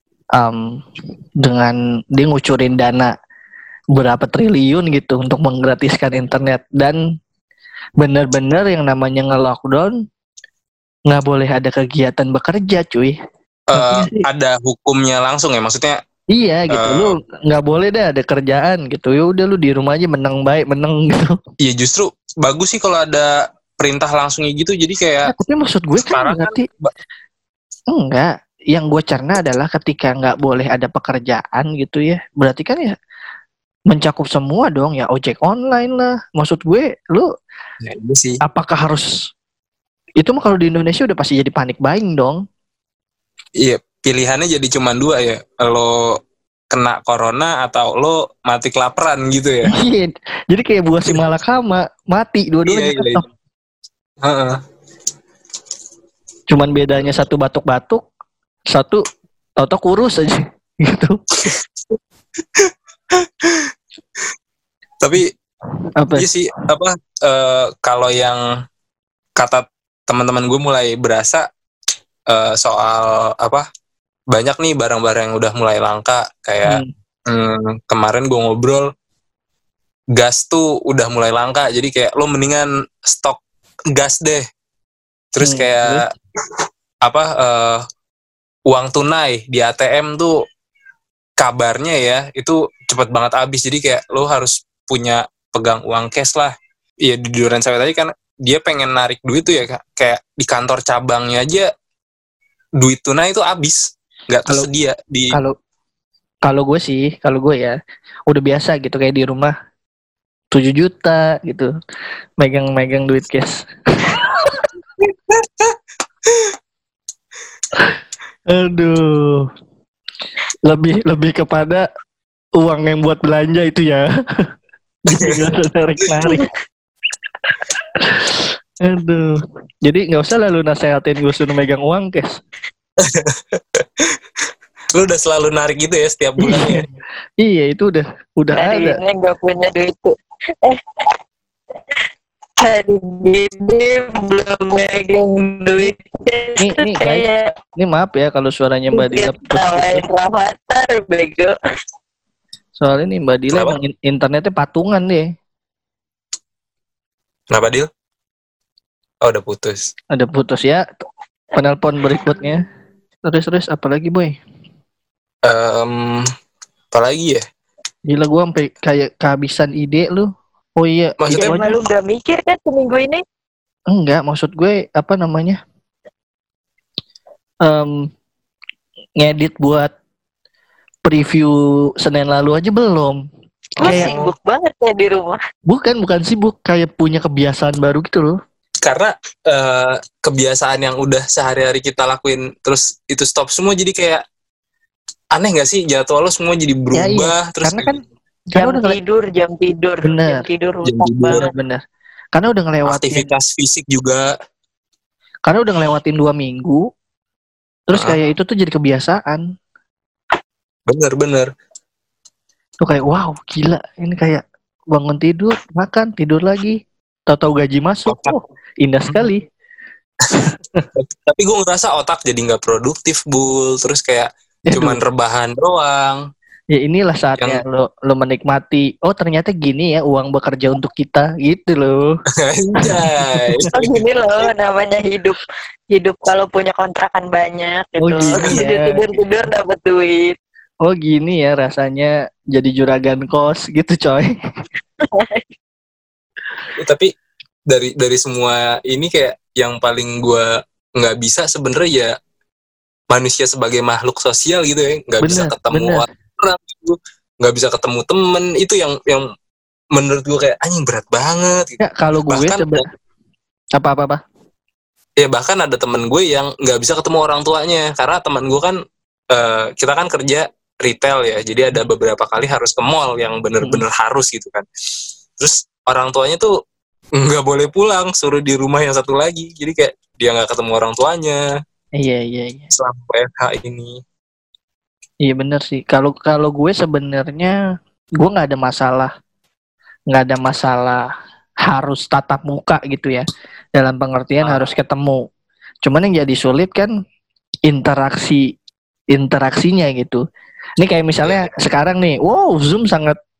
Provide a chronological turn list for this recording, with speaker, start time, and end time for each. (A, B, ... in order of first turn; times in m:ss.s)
0:00.4-0:00.8 A
0:01.4-0:03.1 A
0:03.9-0:07.0 A
0:08.0-0:10.0 A
0:11.1-0:13.2 A
0:13.7-0:16.0 B
0:13.7-0:14.2 A
0:16.3-0:21.4 A
0:16.7-0:17.1 B
0:21.6-0:25.3 B
0:25.3-0:26.6 A
0:26.0-0:26.9 B
0:27.9-0:32.9 A
0:33.9-0:37.3 A
0:37.8-0:38.4 B
0:38.4-0:39.1 A
0:40.2-0:42.4 A
0:43.6-0:46.2 B
0:46.7-0:49.7 B
0:49.6-0:53.2 A
0:52.6-0:53.2 B
0:54.2-0:54.6 B
0:56.5-0:58.0 A
0:58.7-0:59.0 A
0:59.6-1:01.2 A
1:01.4-1:02.0 B
1:02.6-1:03.7 B
1:05.0-1:05.3 B
1:06.0-1:06.3 A
1:06.2-1:08.5 B
1:09.4-1:11.4 B
1:12.3-1:13.6 B
1:14.3-1:18.9 B
1:20.1-1:23.4 B
1:23.9-1:24.4 B
1:25.3-1:26.1 B
1:25.4-1:26.0 A
1:27.0-1:27.8 B
1:28.7-1:30.3 B
1:31.4-1:41.7 B
1:42.8-1:45.4 B
1:46.4-1:47.8 A
1:48.3-1:49.5 A
1:50.5-1:51.7 A
1:52.4-1:54.5 A
1:55.0-1:55.8 B
1:57.7-1:59.5 A
2:00.6-2:01.8 A
2:02.6-2:04.1 A
2:05.0-2:06.5 A
2:05.1-2:05.5 B
2:07.9-2:12.4 A
2:13.0-2:14.2 B
2:14.9-2:16.8 B
2:16.4-2:16.9 A
2:17.4-2:19.0 A
2:18.5-2:21.1 C
2:22.6-2:27.5 C
2:26.6-2:27.2 A
2:27.8-2:30.0 A
2:28.9-2:31.6 C
2:32.8-2:35.3 A
2:33.5-2:33.8 B
2:37.5-2:37.9 B
2:39.2-2:39.9 B
2:40.1-2:40.8 A
2:41.5-2:42.6 A
2:43.2-2:44.4 A
2:45.4-2:46.3 B
2:46.9-2:47.4 B
2:48.1-2:51.7 A
2:51.2-2:51.5 B
2:51.3-2:53.2 C
2:53.9-2:55.6 A
2:57.6-2:58.1 A
2:59.2-2:59.9 A
3:01.0-3:03.2 A
3:03.8-3:04.1 A
3:03.8-3:05.4 C
3:03.8-3:04.3 B
3:05.7-3:08.4 A
3:08.8-3:14.2 B
3:15.3-3:17.9 B
3:16.9-3:18.0 A
3:18.5-3:19.0 A
3:18.6-3:21.5 C
3:20.0-3:20.4 A
3:20.8-3:21.4 B
3:21.3-3:21.8 A
3:22.3-3:23.3 A
3:22.8-3:24.3 B
3:25.5-3:26.8 A
3:27.9-3:29.4 A
3:27.9-3:28.2 B
3:30.9-3:31.5 B
3:32.8-3:39.5 A
3:38.0-3:38.4 B
3:40.2-3:46.2 B
3:44.7-3:45.0 A
3:46.7-3:52.0 A
3:52.4-3:54.0 B
3:52.8-3:53.7 A
3:53.7-4:00.4 C
3:58.0-3:59.0 A
4:00.8-4:04.3 A
4:05.0-4:05.4 C
4:06.8-4:07.1 B
4:07.7-4:12.1 B
4:13.1-4:19.3 B
4:15.2-4:16.0 A
4:19.9-4:22.8 B
4:21.8-4:22.8 A
4:23.8-4:24.2 A
4:25.2-4:28.8 B
4:29.3-4:34.6 B
4:35.4-4:36.5 B
4:37.2-4:41.4 B
4:42.0-4:42.7 A
4:42.7-4:44.0 B
4:45.2-4:47.6 A
4:48.2-4:49.1 A
4:50.1-4:51.1 A
4:51.6-4:55.2 A
4:54.4-4:54.7 B
4:55.8-4:56.9 A
4:57.6-4:58.5 A
4:59.1-5:00.2 A
5:00.8-5:03.2 A
5:01.2-5:01.5 B